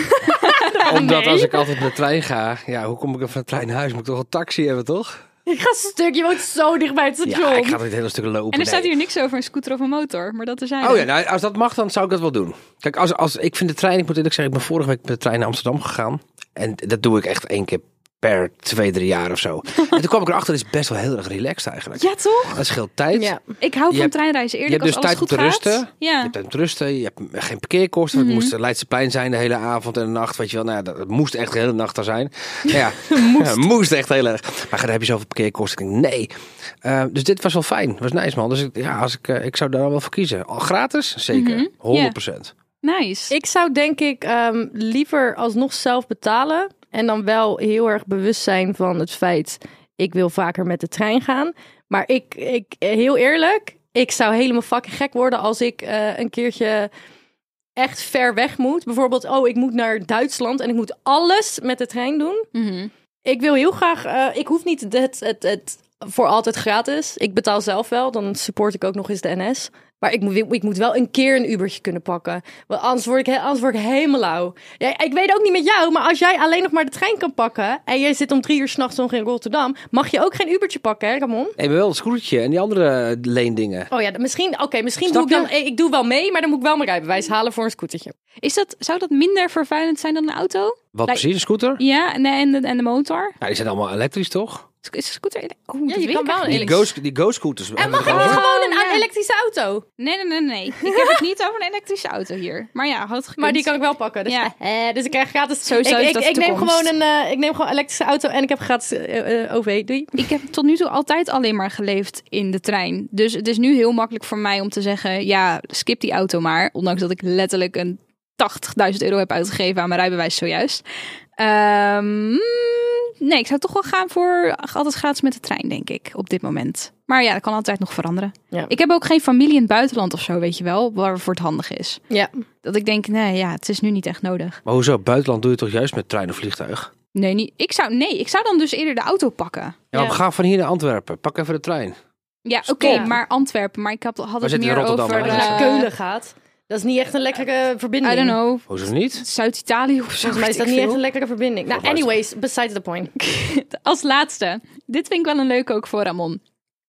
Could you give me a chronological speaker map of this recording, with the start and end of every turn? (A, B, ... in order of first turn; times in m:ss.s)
0:00.3-0:01.5 A
0:00.4-0:01.7 B
0:00.8-0:05.2 C
0:05.4-0:07.8 B
0:07.2-0:08.9 C
0:08.5-0:11.1 A
0:10.8-0:23.3 C
0:22.0-0:22.6 A
0:23.1-0:23.4 B
0:23.6-0:26.3 A
0:24.7-0:36.3 C
0:28.1-0:28.5 A
0:33.1-0:33.6 B
0:36.8-0:42.5 C
0:41.3-0:42.2 A
0:42.8-0:43.3 A
0:43.3-0:56.9 B
0:57.8-1:02.5 B
1:02.5-1:02.9 A
1:03.2-1:21.6 B
1:21.6-1:23.9 C
1:23.9-1:28.1 B
1:25.1-1:25.5 C
1:28.4-1:33.4 A
1:30.9-1:31.8 C
1:33.4-1:34.6 C
1:34.8-1:36.8 A
1:35.9-1:36.9 B
1:36.4-1:38.4 C
1:37.8-1:39.8 B
1:37.9-1:39.0 A
1:40.0-1:43.7 A
1:40.8-1:41.2 B
1:43.4-1:50.2 B
1:45.6-1:46.9 A
1:50.2-2:00.8 A
2:01.4-2:12.0 A
2:12.6-2:14.6 A
2:14.6-2:16.9 C
2:17.1-2:19.8 A
2:19.9-2:22.0 C
2:19.9-2:20.2 B
2:22.4-2:25.9 A
2:22.6-2:23.2 C
2:22.8-2:23.1 B
2:24.4-2:25.7 C
2:25.1-2:28.4 B
2:28.0-2:31.0 A
2:28.7-2:29.2 C
2:30.2-2:33.1 B
2:31.7-2:32.1 C
2:33.2-2:36.4 A